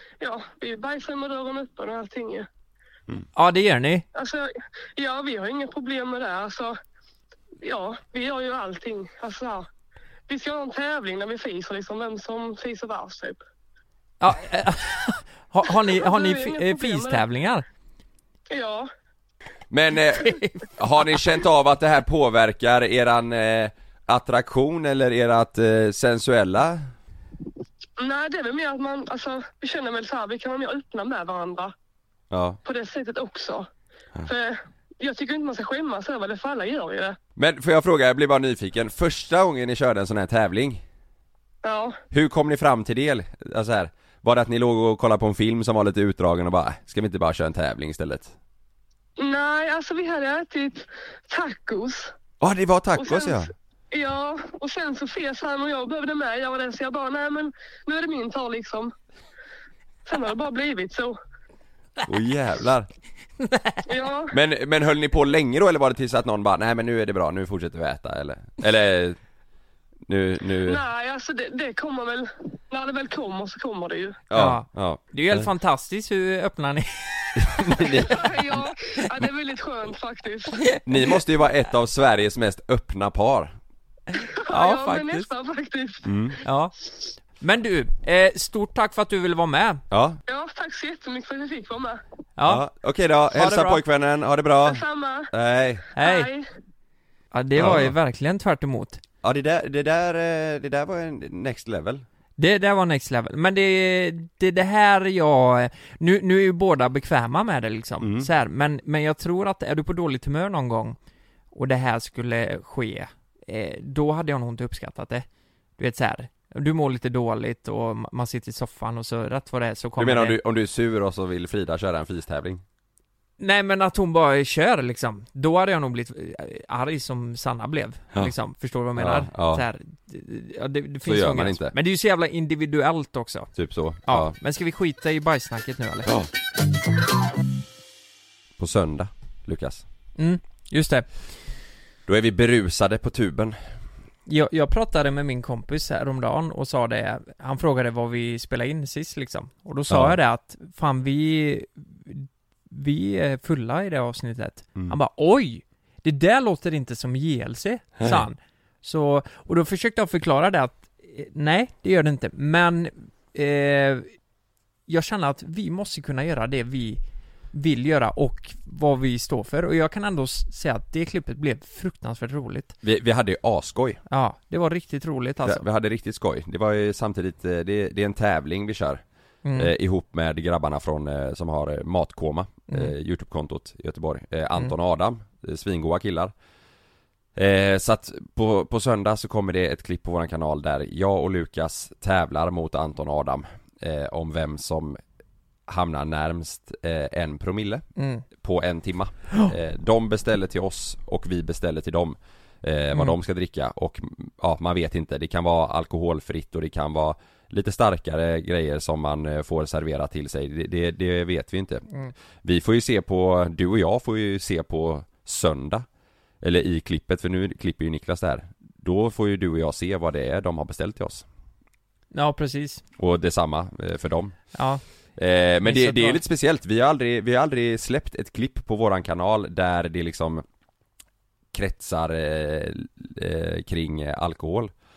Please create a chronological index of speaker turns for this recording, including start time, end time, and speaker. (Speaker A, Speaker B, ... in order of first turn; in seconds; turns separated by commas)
Speaker A: 0.2-2.5, Speaker B: 3.4-4.1, Speaker A: 4.1-6.8, Speaker A: 7.6-9.7, Speaker A: 10.3-13.4, Speaker B: 14.2-17.6, Speaker A: 15.9-17.2, Speaker A: 18.5-18.9, Speaker C: 19.7-26.9, Speaker B: 20.2-20.6, Speaker A: 28.0-31.7, Speaker C: 32.3-32.6, Speaker A: 32.6-33.7, Speaker A: 34.2-37.2, Speaker C: 37.4-40.8, Speaker A: 41.6-42.0, Speaker C: 42.1-48.3, Speaker A: 49.2-52.1, Speaker C: 52.4-53.5, Speaker A: 53.0-58.9, Speaker A: 60.0-61.2, Speaker C: 62.0-62.9, Speaker B: 63.4-63.8, Speaker A: 63.9-64.4, Speaker C: 64.3-69.2, Speaker C: 70.1-70.8, Speaker A: 70.6-74.2, Speaker C: 74.3-75.5, Speaker B: 74.3-79.0, Speaker C: 77.4-78.2, Speaker A: 78.0-80.6, Speaker C: 80.8-83.5, Speaker B: 84.2-85.3, Speaker A: 84.3-86.1, Speaker C: 86.0-86.4, Speaker B: 86.4-86.7, Speaker B: 87.3-89.8, Speaker C: 89.9-90.2, Speaker A: 90.3-92.0, Speaker B: 92.4-92.6, Speaker C: 92.5-95.9, Speaker B: 93.3-93.8, Speaker A: 94.6-95.3, Speaker A: 96.0-96.5, Speaker B: 96.0-96.3, Speaker B: 97.3-99.0, Speaker C: 97.5-97.9, Speaker C: 99.2-102.0, Speaker B: 102.4-111.0, Speaker C: 108.0-108.3, Speaker B: 111.5-115.3, Speaker B: 115.8-120.4, Speaker C: 120.0-122.6, Speaker B: 123.4-133.5, Speaker C: 129.0-129.7, Speaker C: 131.1-131.7, Speaker C: 133.6-134.3, Speaker B: 134.1-136.1, Speaker C: 138.6-139.8, Speaker B: 140.2-141.1, Speaker C: 142.1-143.6, Speaker B: 144.3-164.1, Speaker C: 149.9-150.2, Speaker B: 164.9-167.0, Speaker B: 167.5-172.8, Speaker C: 172.8-174.0, Speaker B: 174.1-175.6, Speaker C: 175.4-179.0, Speaker B: 179.4-179.7, Speaker C: 179.6-186.3, Speaker C: 187.4-195.0, Speaker C: 195.7-197.8, Speaker B: 198.0-198.2, Speaker C: 198.4-211.9, Speaker C: 212.4-215.8, Speaker C: 216.4-221.2, Speaker B: 222.1-222.8, Speaker C: 223.0-224.4, Speaker B: 224.5-224.8, Speaker C: 225.2-230.4, Speaker B: 225.6-226.2, Speaker C: 231.5-234.7